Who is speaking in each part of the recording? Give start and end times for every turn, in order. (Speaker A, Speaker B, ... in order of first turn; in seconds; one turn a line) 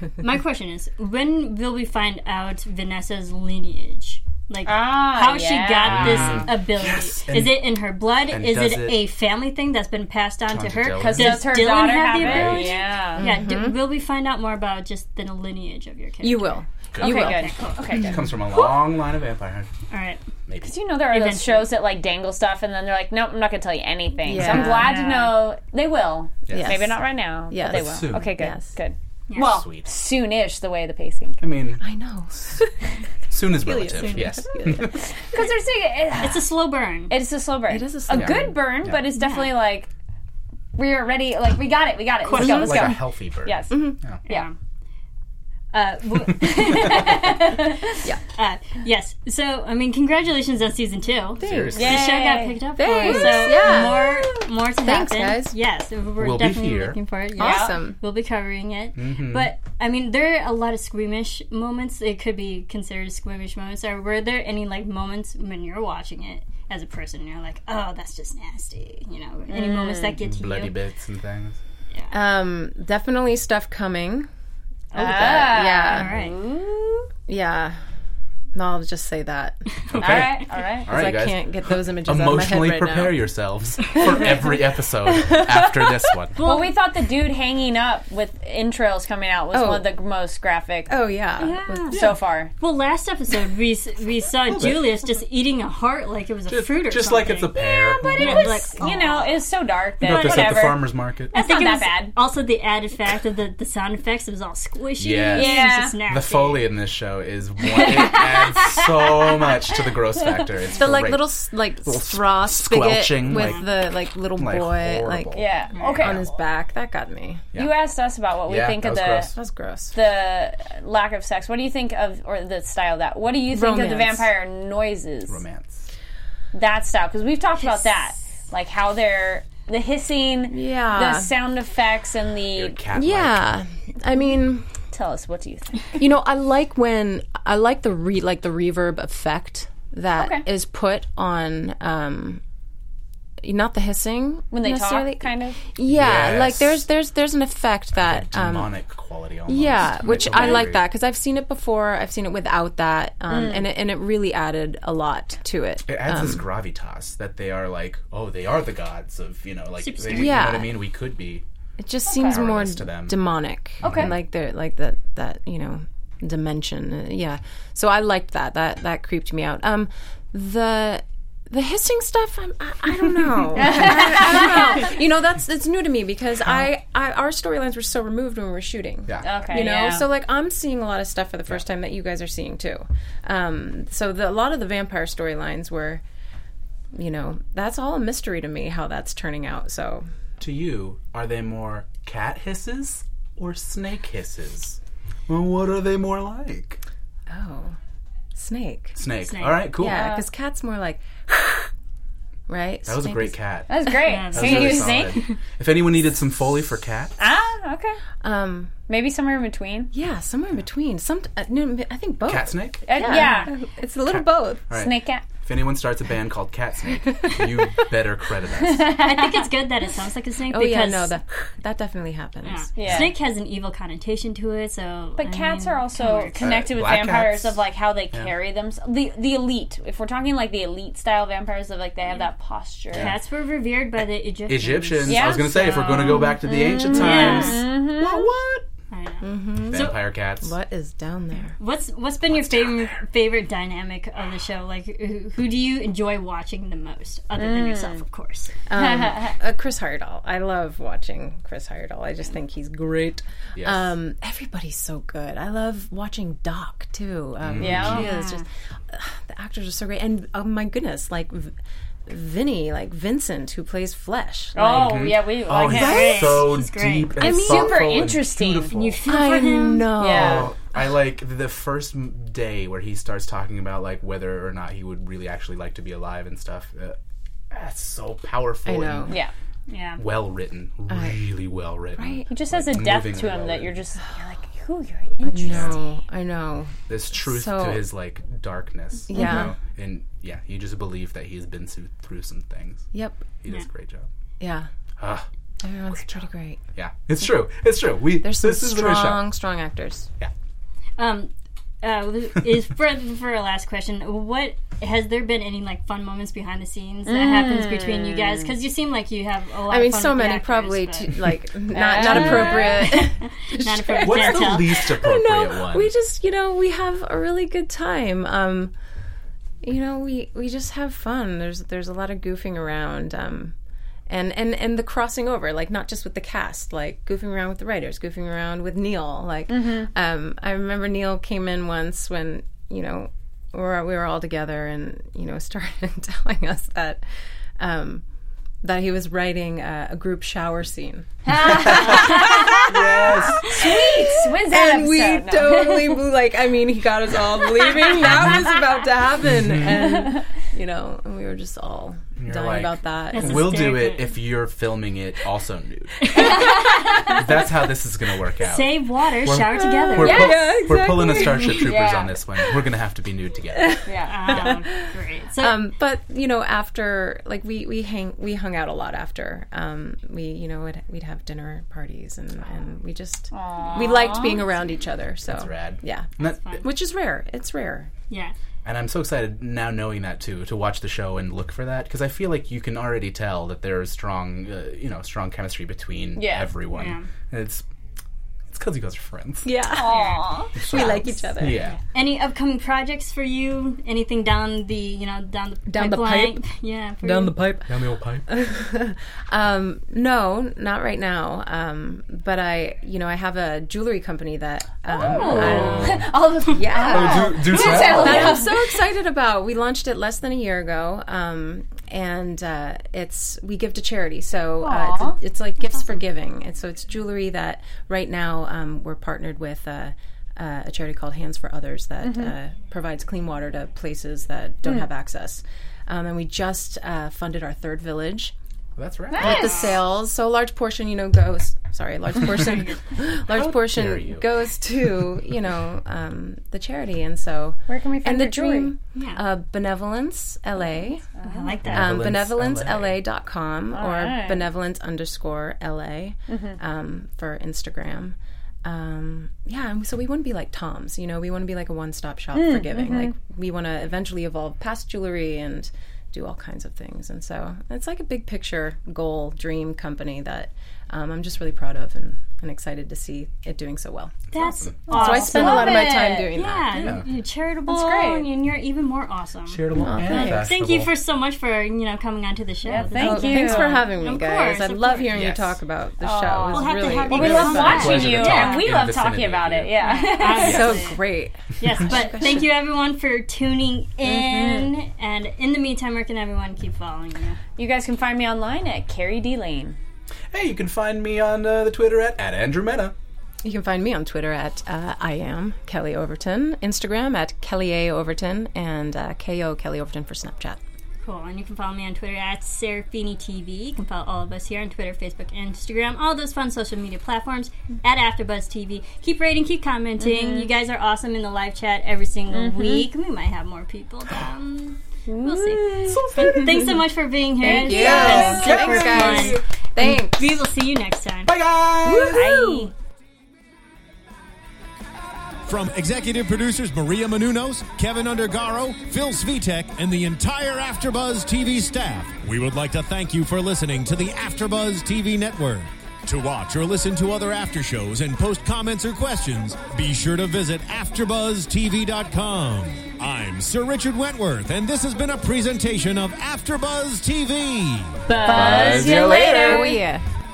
Speaker A: 0.2-18.1
Speaker B: 4.6-6.5
Speaker C: 5.8-7.6
Speaker C: 8.3-9.0
Speaker C: 10.4-11.6
Speaker B: 11.0-13.2
Speaker C: 12.1-12.6
Speaker D: 13.2-13.8
Speaker D: 16.2-18.2
Speaker C: 16.9-17.3
Speaker B: 17.0-18.7
Speaker C: 18.0-19.7
Speaker A: 19.9-20.2
Speaker C: 20.5-20.7
Speaker B: 20.6-31.4
Speaker A: 21.1-21.7
Speaker D: 24.2-24.9
Speaker A: 24.4-25.3
Speaker C: 26.5-26.7
Speaker D: 26.5-26.9
Speaker D: 27.5-28.7
Speaker C: 27.6-28.3
Speaker A: 29.3-29.6
Speaker C: 29.4-29.9
Speaker C: 31.4-31.8
Speaker D: 31.8-32.9
Speaker C: 33.3-35.0
Speaker D: 33.4-35.2
Speaker A: 33.9-34.5
Speaker B: 35.3-36.5
Speaker A: 36.1-37.1
Speaker B: 37.1-39.9
Speaker D: 37.7-38.6
Speaker C: 38.1-39.1
Speaker A: 39.1-39.5
Speaker B: 40.7-44.5
Speaker A: 42.2-43.0
Speaker C: 42.3-44.2
Speaker D: 43.7-44.0
Speaker A: 44.2-44.5
Speaker A: 45.7-47.6
Speaker B: 46.6-48.0
Speaker A: 48.4-70.8
Speaker D: 51.4-51.9
Speaker C: 51.4-52.0
Speaker B: 51.7-53.7
Speaker D: 52.8-55.5
Speaker C: 56.2-57.0
Speaker D: 57.4-58.0
Speaker B: 57.4-57.8
Speaker C: 58.9-59.5
Speaker B: 69.5-70.2
Speaker C: 70.2-71.6
Speaker D: 72.1-74.3
Speaker A: 74.9-76.3
Speaker D: 74.9-76.2
Speaker B: 75.0-77.1
Speaker D: 77.3-77.8
Speaker D: 78.5-79.6
Speaker C: 79.9-86.4
Speaker B: 80.0-80.9
Speaker D: 80.9-83.2
Speaker D: 83.9-84.5
Speaker D: 85.0-86.2
Speaker A: 86.3-86.7
Speaker B: 86.4-90.9
Speaker D: 89.5-89.9
Speaker D: 90.9-92.0
Speaker A: 91.4-92.1
Speaker B: 91.9-92.5
Speaker C: 91.9-92.2
Speaker A: 92.6-97.5
Speaker C: 94.5-94.9
Speaker C: 96.5-99.2
Speaker B: 97.5-102.1
Speaker A: 98.1-98.9
Speaker C: 100.0-101.3
Speaker A: 100.1-100.6
Speaker A: 101.3-106.7
Speaker C: 105.0-111.3
Speaker B: 105.3-106.0
Speaker A: 107.7-108.6
Speaker B: 107.7-109.9
Speaker D: 110.8-115.4
Speaker C: 111.8-113.7
Speaker C: 114.4-116.2
Speaker B: 115.3-116.2
Speaker D: 116.0-117.4
Speaker B: 117.5-119.3
Speaker C: 118.5-119.3
Speaker D: 119.3-119.9
Speaker B: 119.9-125.4
Speaker D: 123.5-124.3
Speaker C: 125.3-125.9
Speaker B: 126.5-132.8
Speaker D: 130.5-131.3
Speaker C: 132.5-133.5
Speaker D: 132.9-134.7
Speaker B: 134.9-136.0
Speaker D: 136.0-142.4
Speaker B: 140.2-140.4
Speaker D: 143.4-148.7
Speaker B: 144.5-145.6
Speaker C: 145.9-146.8
Speaker C: 148.0-150.8
Speaker D: 149.5-156.4
Speaker B: 153.3-153.7
Speaker C: 155.9-161.4
Speaker A: 159.8-160.4
Speaker D: 160.1-160.8
Speaker D: 161.8-186.0
Speaker B: 162.1-162.4
Speaker C: 162.2-163.2
Speaker B: 163.8-164.2
Speaker C: 163.8-164.1
Speaker B: 173.6-174.7
Speaker C: 179.1-179.3
Speaker B: 179.2-180.0
Speaker D: 186.9-190.1
Speaker C: 190.4-196.8
Speaker D: 197.3-197.8
Speaker D: 198.3-199.0
Speaker C: 199.0-200.1
Speaker A: 199.2-199.7
Speaker D: 199.7-201.7
Speaker B: 199.8-200.3
Speaker D: 202.5-203.3
Speaker C: 202.9-203.7
Speaker B: 203.7-205.3
Speaker A: 204.0-205.0
Speaker C: 204.3-207.2
Speaker B: 207.2-208.0
Speaker D: 208.2-208.7
Speaker B: 208.9-209.9
Speaker D: 209.9-214.7
Speaker C: 212.3-212.9
Speaker B: 212.8-213.5
Speaker A: 213.0-213.5
Speaker C: 214.1-219.0
Speaker B: 214.7-215.2
Speaker D: 217.1-217.7
Speaker B: 218.6-219.5
Speaker A: 219.0-221.1
Speaker D: 220.5-222.7
Speaker A: 222.4-226.4
Speaker B: 222.8-223.1
Speaker C: 222.8-223.1
Speaker B: 225.2-233.1
Speaker C: 226.3-227.6
Speaker A: 232.9-237.6
Speaker C: 234.5-238.7
Speaker B: 235.0-238.3
Speaker A: 238.9-240.0
Speaker D: 239.2-241.6
Speaker C: 239.7-240.5
Speaker A: 241.6-248.5
Speaker C: 242.3-243.0
Speaker B: 247.4-248.0
Speaker D: 248.7-261.5
Speaker B: 248.8-249.3
Speaker C: 253.6-253.9
Speaker C: 257.4-258.1
Speaker B: 257.6-258.1
Speaker A: 257.9-258.4
Speaker D: 262.1-265.1
Speaker B: 264.5-266.3
Speaker C: 264.6-269.0
Speaker A: 265.5-267.9
Speaker D: 265.6-266.4
Speaker B: 267.2-268.7
Speaker A: 268.6-270.0
Speaker D: 269.1-270.5
Speaker B: 269.9-270.5
Speaker C: 270.0-277.0
Speaker C: 277.5-279.2
Speaker D: 278.6-279.2
Speaker A: 279.7-280.0
Speaker C: 280.0-283.8
Speaker D: 280.9-281.2
Speaker D: 281.9-282.3
Speaker B: 282.3-285.8
Speaker D: 285.2-287.8
Speaker C: 285.4-285.8
Speaker C: 286.9-292.9
Speaker D: 289.1-289.5
Speaker A: 289.2-289.5
Speaker D: 292.9-293.3
Speaker C: 293.4-294.1
Speaker D: 294.4-294.7
Speaker C: 295.0-295.3
Speaker D: 295.6-296.6
Speaker C: 296.8-299.3
Speaker D: 298.2-300.1
Speaker A: 301.0-301.3
Speaker A: 301.8-314.9
Speaker B: 307.1-308.5
Speaker D: 309.7-318.7
Speaker B: 311.7-312.8
Speaker C: 312.0-312.6
Speaker C: 314.0-315.9
Speaker D: 319.6-323.5
Speaker D: 324.1-337.0
Speaker B: 329.5-329.9
Speaker D: 337.6-338.0
Speaker D: 338.6-353.5
Speaker B: 341.3-342.6
Speaker C: 341.6-343.8
Speaker A: 341.9-342.2
Speaker B: 343.4-346.0
Speaker B: 347.8-348.2
Speaker C: 349.3-350.0
Speaker C: 352.2-363.8
Speaker A: 353.1-354.1
Speaker A: 356.1-357.2
Speaker D: 356.1-356.6
Speaker D: 357.1-357.4
Speaker A: 358.4-360.3
Speaker B: 359.9-360.5
Speaker D: 360.0-361.8
Speaker B: 361.3-362.1
Speaker D: 363.6-363.8
Speaker B: 363.9-364.4
Speaker A: 364.0-365.6
Speaker D: 365.4-377.9
Speaker B: 373.3-374.4
Speaker C: 375.2-376.6
Speaker A: 376.2-376.6
Speaker A: 378.1-378.3
Speaker C: 378.6-387.6
Speaker B: 386.1-386.5
Speaker A: 386.7-387.1
Speaker C: 388.5-389.5
Speaker D: 389.4-391.7
Speaker B: 389.7-391.0
Speaker A: 389.9-390.2
Speaker C: 390.6-391.8
Speaker A: 391.7-397.5
Speaker D: 395.7-396.4
Speaker D: 397.0-397.7
Speaker C: 397.7-398.3
Speaker D: 398.3-428.3
Speaker B: 404.9-408.6
Speaker C: 405.0-406.1
Speaker C: 406.8-408.4
Speaker B: 414.6-415.2
Speaker B: 422.0-422.3
Speaker C: 428.8-429.6
Speaker B: 429.1-429.7
Speaker D: 429.2-441.1
Speaker A: 432.2-432.8
Speaker C: 433.3-434.2
Speaker B: 437.7-438.7
Speaker A: 438.9-439.2
Speaker B: 441.2-441.6
Speaker A: 441.2-442.1
Speaker C: 441.6-443.0
Speaker D: 441.7-464.3
Speaker B: 443.7-444.5
Speaker B: 446.3-446.6
Speaker B: 452.3-453.1
Speaker A: 464.3-475.2
Speaker C: 464.4-464.7
Speaker D: 464.9-467.0
Speaker B: 464.9-466.3
Speaker B: 467.7-468.2
Speaker C: 469.5-470.9
Speaker D: 469.7-470.6
Speaker B: 472.6-473.8
Speaker D: 472.9-478.2
Speaker C: 475.1-475.5
Speaker B: 476.0-480.9
Speaker A: 476.4-478.7
Speaker C: 477.1-479.7
Speaker A: 479.8-481.0
Speaker D: 480.2-482.4
Speaker C: 480.4-480.7
Speaker A: 481.6-487.4
Speaker B: 484.0-484.7
Speaker B: 487.6-489.8
Speaker C: 490.3-492.9
Speaker D: 493.4-500.6
Speaker A: 501.0-522.7
Speaker B: 510.0-510.5
Speaker B: 512.3-512.9
Speaker B: 515.1-516.0
Speaker C: 515.8-516.8
Speaker B: 517.4-518.6
Speaker D: 517.4-520.4
Speaker C: 517.7-519.4
Speaker C: 521.2-522.4
Speaker B: 521.9-522.7
Speaker E: 525.4-548.0
Speaker B: 548.1-549.8
Speaker C: 548.2-549.7
Speaker D: 548.9-550.0